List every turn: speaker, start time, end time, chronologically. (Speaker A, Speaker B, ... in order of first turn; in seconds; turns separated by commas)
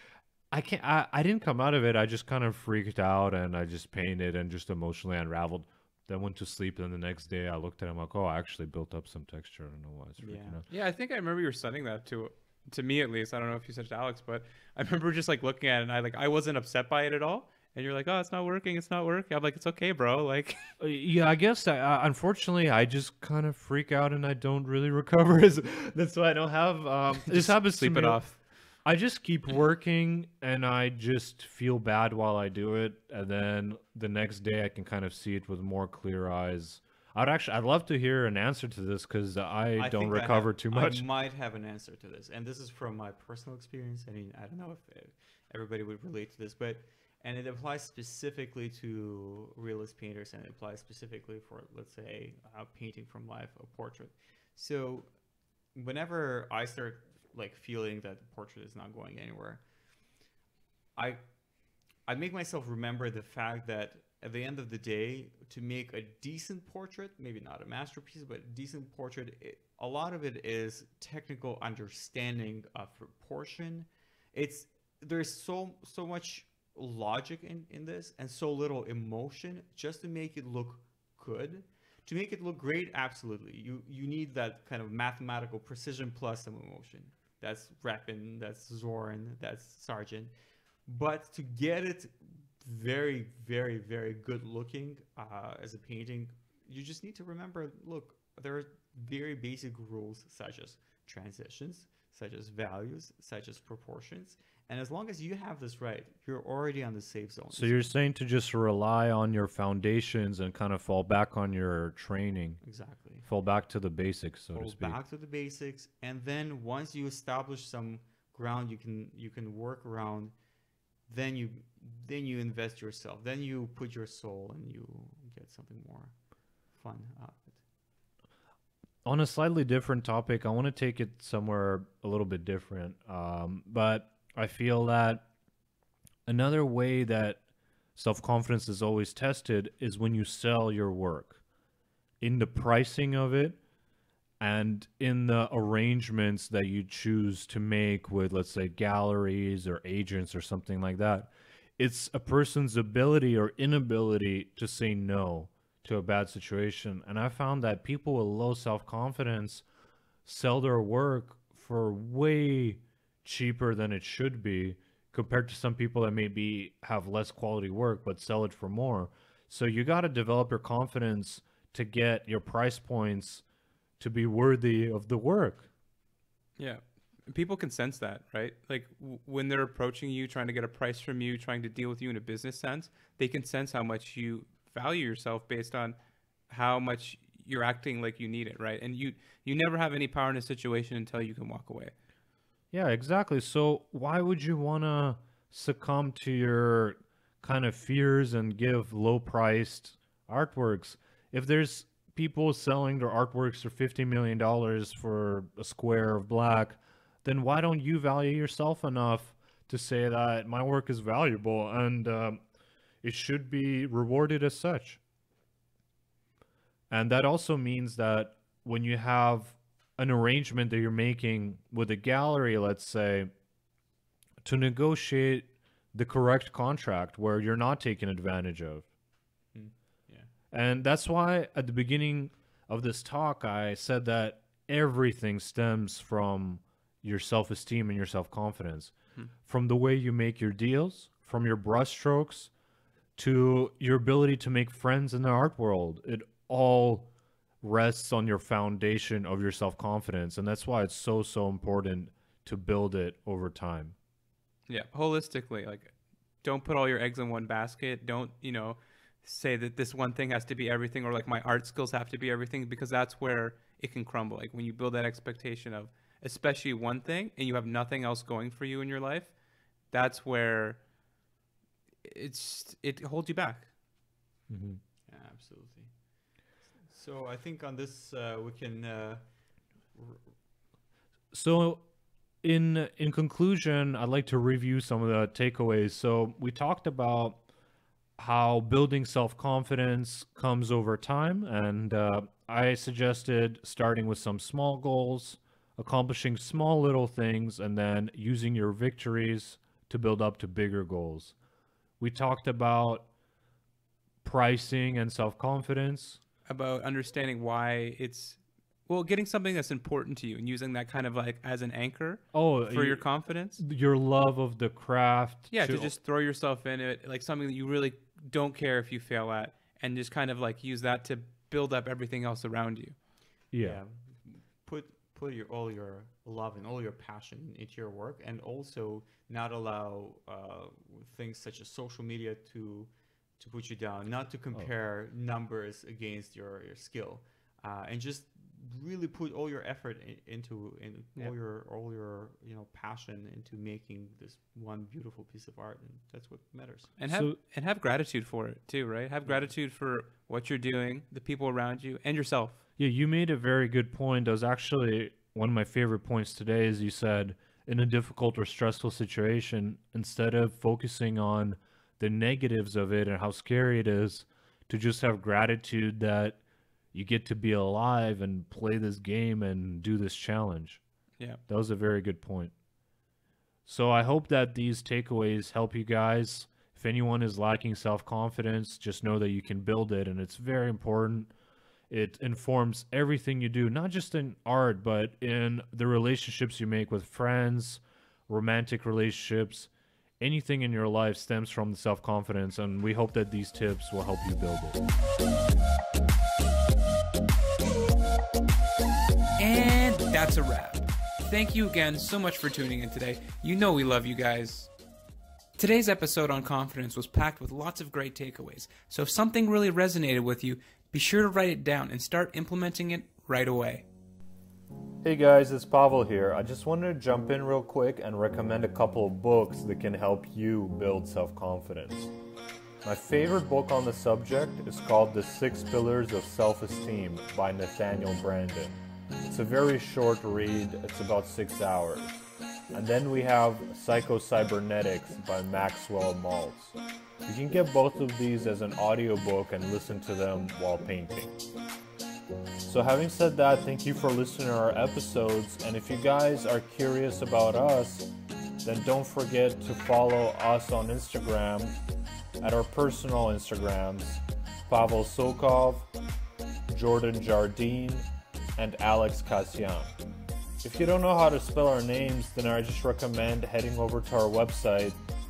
Speaker A: 0.5-10.6, Speaker B: 10.2-10.6, Speaker C: 10.7-20.6, Speaker A: 20.8-28.2, Speaker C: 27.3-28.4, Speaker A: 28.9-41.0, Speaker B: 39.7-55.1, Speaker B: 55.7-59.6, Speaker B: 62.1-90.3, Speaker B: 90.9-107.9, Speaker A: 107.5-112.6, Speaker B: 112.6-113.3, Speaker A: 113.2-115.0, Speaker B: 114.5-120.3, Speaker B: 121.1-126.1, Speaker B: 126.7-127.6, Speaker A: 129.1-135.3, Speaker A: 136.3-137.4, Speaker A: 137.9-141.4, Speaker A: 142.2-143.6, Speaker A: 144.4-159.6, Speaker A: 160.2-173.4, Speaker A: 174.0-175.7, Speaker C: 176.6-186.0, Speaker C: 186.5-191.9, Speaker A: 192.7-212.4, Speaker A: 213.0-215.0, Speaker A: 216.9-223.3, Speaker A: 224.4-228.9, Speaker B: 229.5-230.3, Speaker A: 230.5-242.5, Speaker A: 243.2-247.1, Speaker A: 247.6-253.9, Speaker C: 254.7-269.3, Speaker C: 269.9-270.8, Speaker C: 272.0-273.7, Speaker A: 274.5-274.8, Speaker B: 275.1-275.9, Speaker B: 276.9-279.2, Speaker B: 279.9-280.2, Speaker A: 281.3-281.9, Speaker A: 282.4-287.4, Speaker A: 288.2-301.4, Speaker A: 302.0-303.1, Speaker A: 304.2-306.2, Speaker C: 306.4-313.6, Speaker A: 312.3-313.1, Speaker A: 313.6-315.9, Speaker C: 315.5-322.9, Speaker A: 323.5-323.8, Speaker B: 323.6-346.9, Speaker C: 347.0-352.6, Speaker A: 347.1-347.4, Speaker A: 352.8-366.4, Speaker A: 366.9-370.8, Speaker A: 371.5-372.5, Speaker A: 373.7-381.3, Speaker A: 381.9-394.8, Speaker C: 399.4-404.7, Speaker C: 405.6-413.9, Speaker A: 415.0-422.1, Speaker A: 422.8-432.2, Speaker A: 432.7-441.4, Speaker A: 442.6-448.1, Speaker A: 448.6-451.7, Speaker A: 452.4-455.9, Speaker A: 456.7-459.9, Speaker A: 460.6-465.0